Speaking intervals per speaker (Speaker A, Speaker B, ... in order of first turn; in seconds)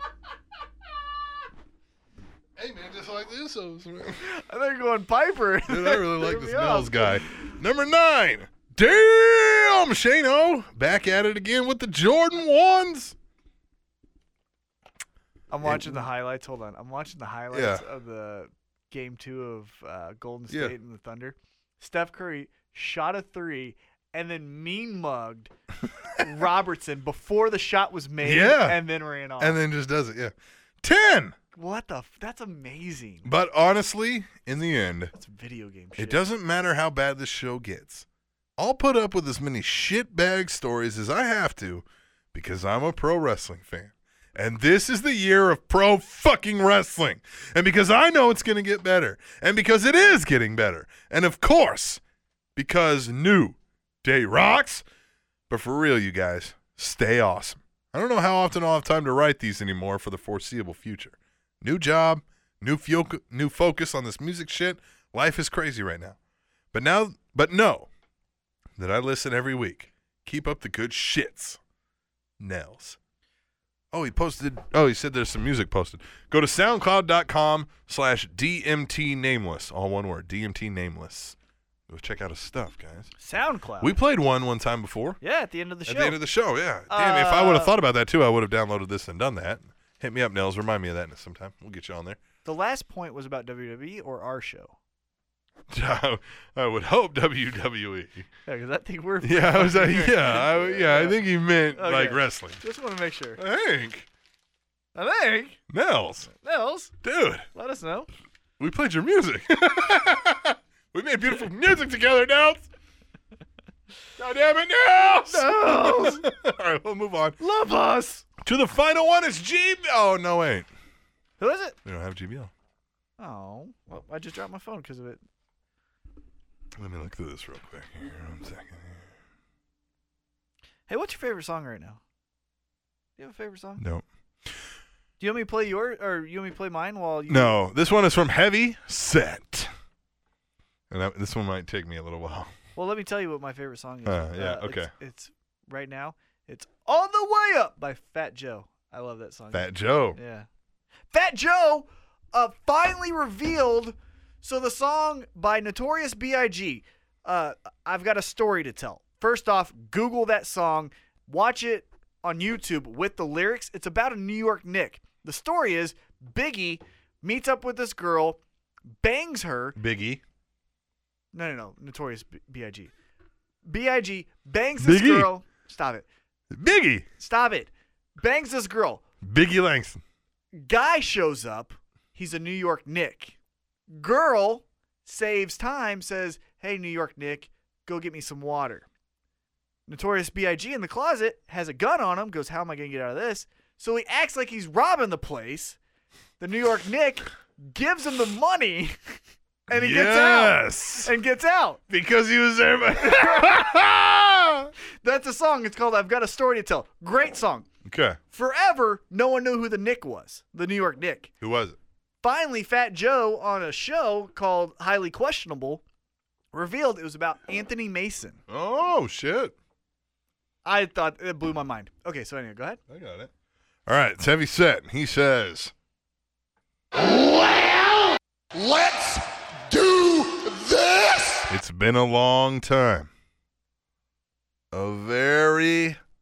Speaker A: 2.5-4.2, 5.7-13.2, 15.6-16.0, 17.5-17.8, 20.5-20.7, 28.2-28.8, 29.4-31.4, 33.2-35.1, 36.0-38.0, 38.6-52.0, 52.5-54.8, 55.5-66.2, 66.7-67.9, 68.8-71.6, 72.4-73.0, 73.9-81.3, 81.9-83.1, 83.8-85.2, 85.8-92.2, 95.7-98.3, 99.2-102.6, 103.4-104.1, 105.7-106.3, 107.0-107.5, 108.6-112.7, 114.2-117.4, 118.4-120.7, 121.8-122.5, 126.8-129.1, 133.8-134.6, 137.3-139.7, 140.9-142.5, 144.1-144.9, 149.5-150.2, 169.8-170.2, 174.8-175.3, 176.5-177.1, 179.2-180.0, 199.7-201.1, 201.9-204.7, 207.8-208.2, 211.4-211.8, 218.5-219.5, 222.9-223.3, 223.8-225.7, 231.5-233.1, 234.7-236.0
Speaker B: 4.2-7.5, 15.5-25.5, 26.2-29.6, 31.5-33.3, 35.1-36.2, 83.2-84.0, 85.2-86.2, 86.9-87.7, 92.4-94.8, 98.5-103.4, 104.9-105.6, 106.3-106.9, 107.5-108.1, 115.2-116.3, 117.4-118.2, 121.4-121.8, 123.2-125.2, 130.9-132.0, 133.2-133.8, 135.2-137.6, 142.8-150.5, 151.1-168.4, 169.0-169.8, 171.3-172.9, 173.6-176.1, 177.2-179.0, 180.5-183.4, 183.9-188.9, 189.9-195.8, 196.4-198.9, 199.7-201.8, 205.0-207.7, 208.3-211.3, 212.2-215.8, 216.5-218.4, 220.6-222.8
Speaker C: 226.9-231.5